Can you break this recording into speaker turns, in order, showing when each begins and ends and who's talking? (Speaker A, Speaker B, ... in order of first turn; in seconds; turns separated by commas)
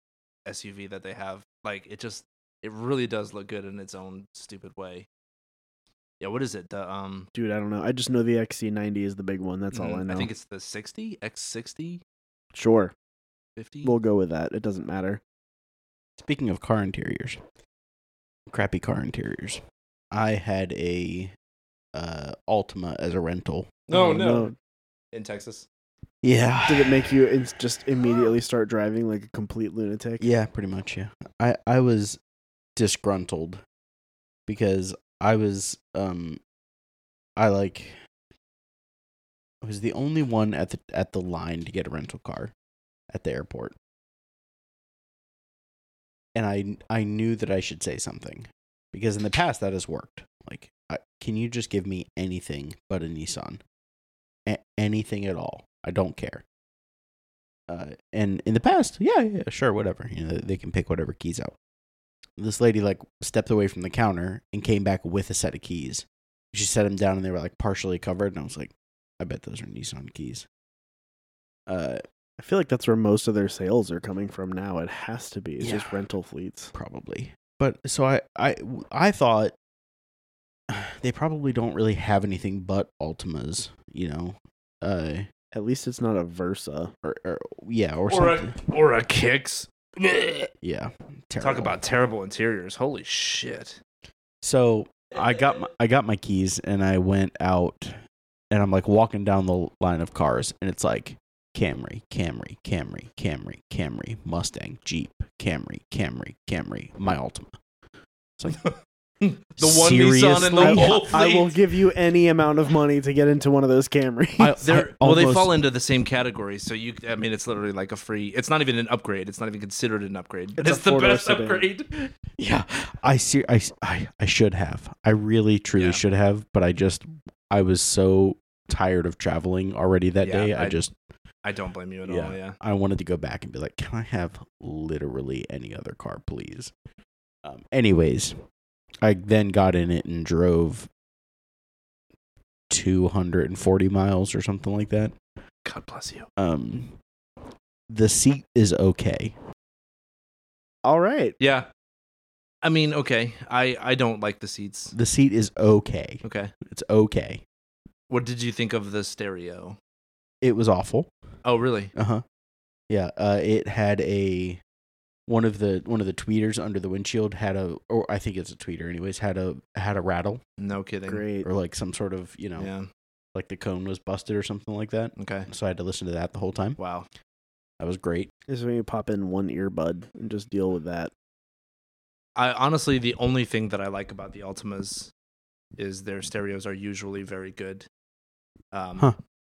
Speaker A: 0.5-5.1, Speaker A: 6.2-7.3, Speaker B: 7.3-10.3, Speaker A: 9.7-12.0, Speaker B: 12.5-12.9, Speaker A: 13.6-13.9, Speaker B: 13.8-15.2, Speaker C: 16.2-17.4, Speaker C: 18.5-21.3, Speaker C: 21.9-23.7, Speaker A: 23.9-24.5, Speaker B: 23.9-24.5, Speaker A: 25.1-25.7, Speaker C: 26.2-27.3, Speaker B: 26.7-30.2, Speaker C: 30.2-32.2, Speaker C: 32.8-33.6, Speaker C: 34.5-36.4, Speaker C: 37.4-38.0, Speaker C: 39.6-42.5, Speaker C: 43.1-43.7, Speaker C: 46.4-53.6, Speaker C: 54.5-56.4, Speaker C: 57.7-61.5, Speaker C: 62.4-70.5, Speaker C: 71.7-72.0, Speaker B: 72.4-76.7, Speaker C: 75.6-76.0, Speaker C: 76.7-79.5, Speaker C: 80.7-85.3, Speaker B: 85.5-86.9, Speaker C: 87.0-88.5, Speaker A: 88.1-90.5, Speaker C: 90.6-91.8, Speaker A: 91.4-93.8, Speaker C: 94.4-98.0, Speaker C: 98.5-107.6, Speaker A: 108.5-111.6, Speaker C: 109.6-111.1, Speaker B: 110.6-114.6, Speaker C: 114.4-115.6, Speaker A: 114.6-121.9, Speaker B: 120.6-121.7, Speaker C: 122.3-130.9, Speaker A: 125.8-126.0, Speaker A: 130.2-130.9, Speaker A: 131.4-132.6, Speaker C: 132.1-136.7, Speaker C: 137.4-138.4, Speaker C: 139.0-140.9, Speaker C: 142.7-145.2, Speaker A: 145.7-146.3, Speaker C: 146.4-147.0, Speaker C: 147.9-149.3, Speaker B: 150.8-151.4, Speaker A: 151.4-151.7, Speaker A: 152.6-154.9, Speaker C: 154.9-157.4, Speaker A: 156.2-156.5, Speaker A: 158.1-159.8, Speaker C: 160.4-161.1, Speaker A: 161.4-161.9, Speaker C: 161.9-162.2, Speaker C: 162.9-164.6, Speaker C: 165.3-170.4, Speaker A: 170.6-171.2, Speaker B: 171.1-171.5, Speaker C: 171.4-172.7, Speaker A: 172.6-172.9, Speaker C: 173.3-176.8, Speaker A: 175.2-175.5, Speaker A: 176.8-177.1, Speaker C: 177.8-178.3, Speaker B: 178.5-181.1, Speaker A: 182.4-185.1, Speaker A: 185.8-187.9, Speaker A: 188.7-189.1